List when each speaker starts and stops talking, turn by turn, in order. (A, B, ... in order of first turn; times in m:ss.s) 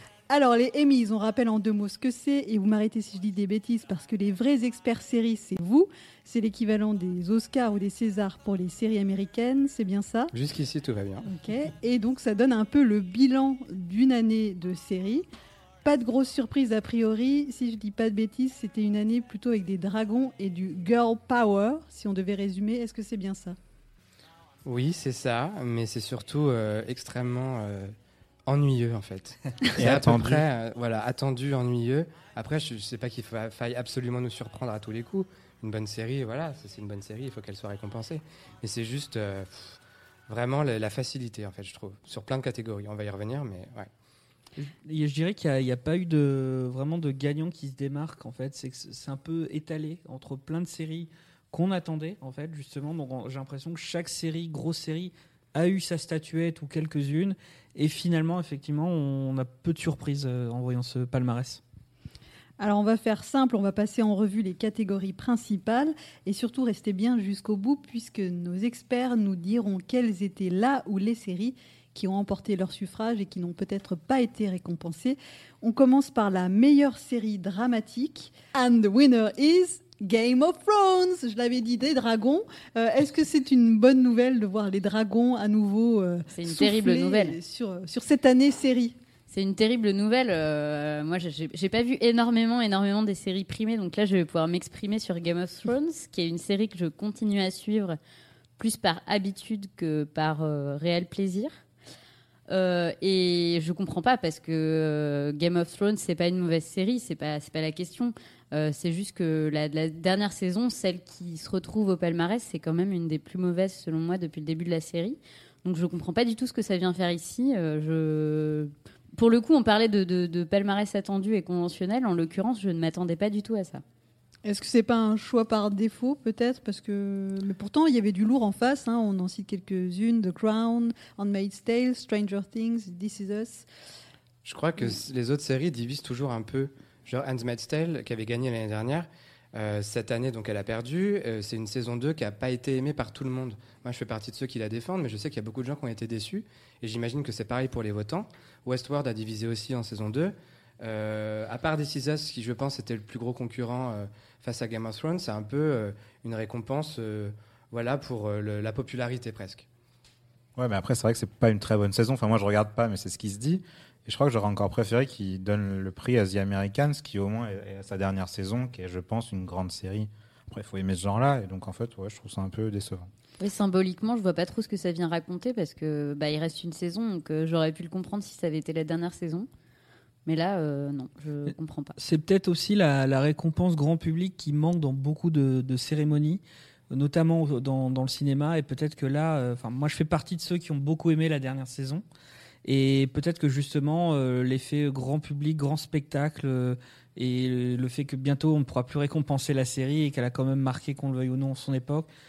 0:00.3-0:10.3 A
0:10.3-0:11.3 B
0:11.2-0:15.2 A
0:15.8-0:23.6 A
0:24.6-0:27.9 B
0:28.5-0:43.9 B
0:29.7-0:30.4 C
0:44.6-1:01.6 D
1:02.6-1:28.9 A
1:26.3-1:27.4 E
1:29.3-1:38.0 E
1:38.6-1:41.5 E
1:42.5-2:03.8 E
2:04.4-2:13.6 A
2:14.4-2:39.7 B
2:40.6-2:53.1 C
2:53.4-2:59.5 E
3:00.2-3:02.0 E
3:02.0-3:12.0 D
3:12.6-3:22.1 D